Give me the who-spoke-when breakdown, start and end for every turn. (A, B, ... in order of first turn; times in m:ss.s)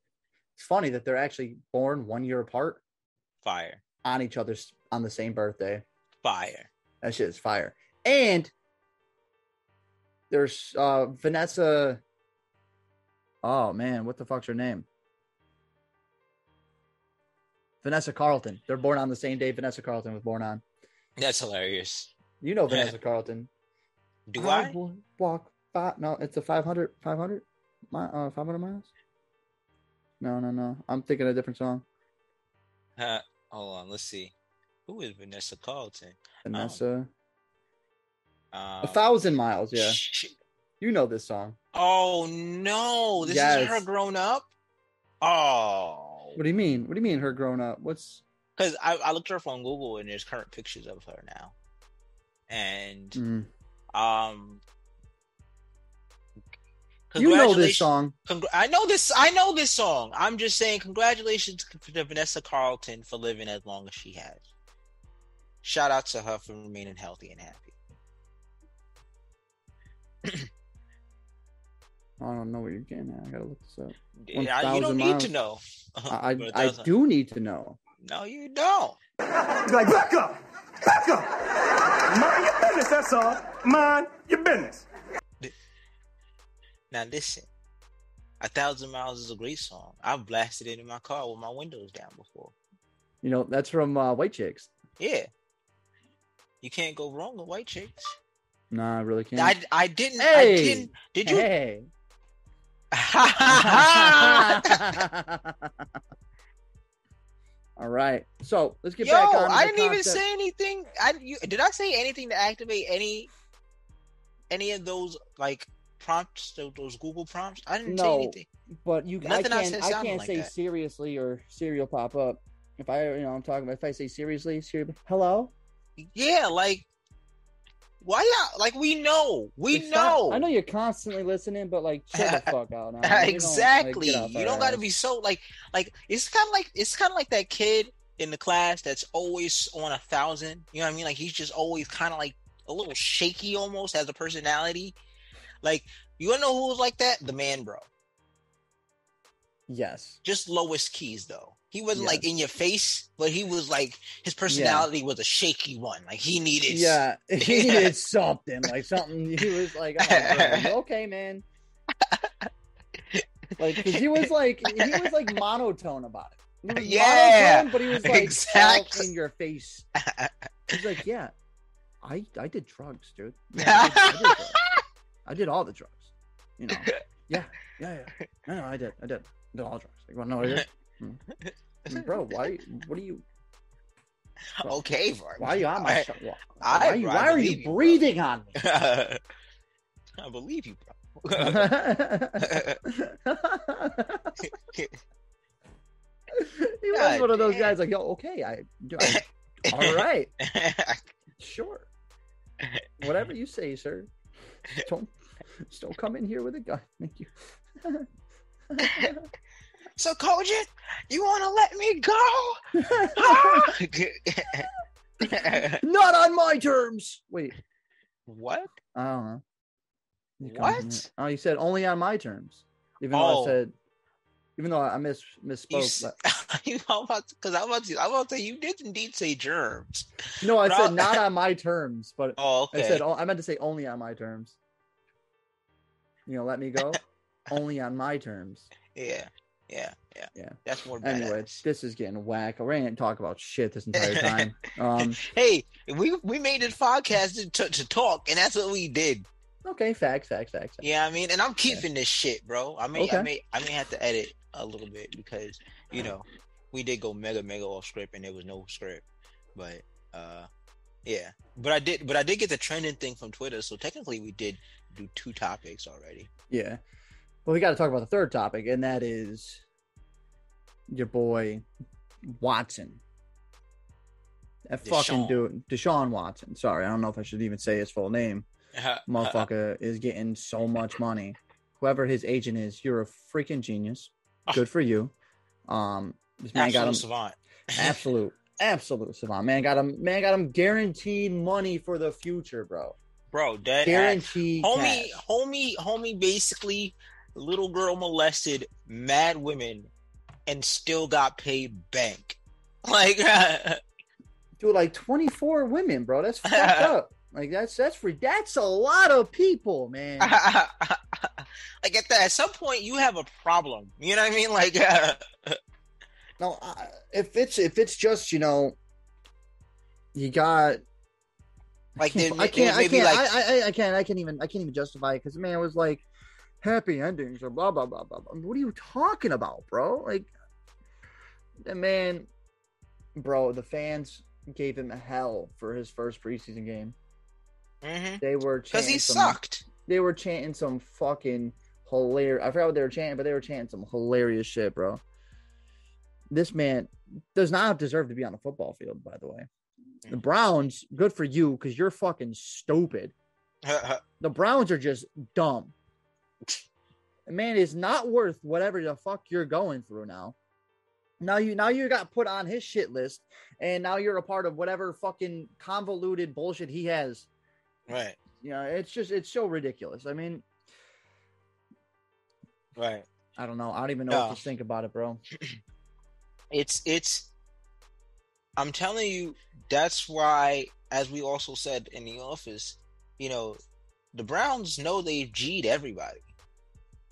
0:00.6-0:02.8 A
0:03.4-0:03.8 B
0:04.0-0:05.9 A
0:06.2-0:06.7 B
0:07.0-0:08.5 A
0:10.3-0:12.0 A
0:13.4-0:14.9 A
0:17.8-0:20.6 A
0:21.2-0:22.1 B
0:22.4-0:23.5 A
0:24.3-0:24.8 B
0:24.4-0:28.9 A
0:30.2-0:31.8 A
0:33.0-0:34.3 B
0:34.9-0:36.8 B
0:36.4-0:37.1 A
0:38.5-0:39.0 B
0:38.8-0:40.0 A
0:39.8-0:40.4 B
0:40.8-0:41.6 A
0:41.7-0:44.5 B
0:43.2-0:43.8 A
0:45.2-0:46.4 B
0:46.4-0:48.2 A
0:48.6-0:51.5 B
0:52.5-0:53.2 B
0:53.2-0:53.5 A
0:53.9-0:54.6 B
0:57.1-1:04.4 B
0:57.2-0:58.2 A
1:05.6-1:07.7 B
1:12.2-1:15.3 A
1:14.2-1:16.9 B
1:16.1-1:17.8 A
1:18.0-1:19.0 B
1:19.6-1:21.4 C
1:22.1-1:24.9 C
1:26.9-1:27.5 B
1:28.4-1:32.5 B
1:33.2-1:34.7 A
1:35.0-1:35.3 B
1:36.6-1:38.1 B
1:38.7-1:39.6 A
1:39.4-1:41.5 B
1:40.2-1:41.9 A
1:42.9-1:45.0 B
1:43.5-1:45.9 A
1:47.8-1:50.2 A
1:49.0-1:53.3 B
1:54.5-1:58.5 B
1:57.8-2:05.5 A
1:59.2-2:00.5 B
2:06.0-2:06.9 B
2:08.0-2:10.5 B
2:09.7-2:14.8 A
2:12.2-2:12.5 B
2:13.0-2:25.0 B
2:25.6-2:27.9 B
2:29.7-2:30.2 A
2:30.2-2:37.9 B
2:31.9-2:32.2 A
2:34.5-2:34.9 A
2:36.7-2:41.4 A
2:40.0-2:40.7 B
2:42.0-2:42.5 B
2:43.1-2:45.3 B
2:43.6-2:49.9 A
2:46.7-2:49.1 B
2:50.0-2:50.8 B
2:50.7-2:51.4 A
2:52.0-2:54.6 A
2:53.6-2:54.8 B
2:55.2-3:01.2 A
3:01.4-3:02.1 B
3:01.9-3:03.2 A
3:04.6-3:08.0 B
3:05.4-3:08.6 A
3:08.6-3:09.2 B
3:10.2-3:11.8 B
3:11.4-3:14.4 A
3:12.4-3:12.8 B
3:14.4-3:15.0 B
3:16.3-3:20.3 A
3:16.9-3:17.8 B
3:19.0-3:21.1 B
3:21.4-3:21.9 A
3:22.6-3:22.9 B
3:23.0-3:24.1 A
3:24.8-3:28.1 A
3:28.7-3:29.3 A
3:28.8-3:29.1 B
3:30.0-3:34.7 B
3:32.8-3:33.7 A
3:35.2-3:35.8 B
3:35.2-3:37.5 A
3:38.3-3:38.7 B
3:38.9-3:39.4 A
3:40.4-3:43.7 A
3:40.4-3:41.1 B
3:43.1-3:43.6 B
3:44.6-3:46.2 A
3:45.7-3:51.2 B
3:50.4-3:54.6 A
3:52.4-3:53.0 B
3:56.3-3:58.7 A
3:58.9-4:01.6 B
4:00.4-4:05.2 A
4:04.0-4:09.3 B
4:09.6-4:10.8 A
4:10.8-4:19.0 B
4:13.0-4:13.3 A
4:19.6-4:20.5 B
4:21.0-4:26.3 B
4:26.5-4:26.8 A
4:27.4-4:29.6 A
4:30.9-4:31.7 A
4:32.3-4:33.0 A
4:34.7-4:38.5 A
4:34.8-4:35.4 B
4:38.8-4:39.5 B
4:39.1-4:45.1 A
4:45.7-4:47.0 A
4:46.5-4:48.0 B
4:47.8-4:53.0 A
4:53.3-4:59.9 B
4:53.8-4:55.2 A
5:00.5-5:03.8 B
5:04.6-5:10.4 A
5:06.5-5:07.0 B
5:10.2-5:15.6 B
5:16.4-5:18.8 A
5:20.1-5:20.8 A
5:22.0-5:23.4 B
5:22.0-5:26.0 A
5:26.6-5:30.3 A
5:31.6-5:32.3 A
5:33.2-5:37.0 A
5:37.8-5:39.7 B
5:38.2-5:45.0 A
5:46.3-5:49.5 A
5:50.1-5:53.1 A
5:53.6-5:54.0 B
5:54.2-5:55.7 A
5:57.3-6:00.4 A
6:01.2-6:07.3 A
6:07.9-6:08.2 B
6:08.4-6:10.4 A
6:12.8-6:13.1 B
6:13.4-6:15.2 A
6:14.1-6:14.4 B
6:16.5-6:17.3 B
6:18.6-6:23.6 B
6:24.1-6:26.3 B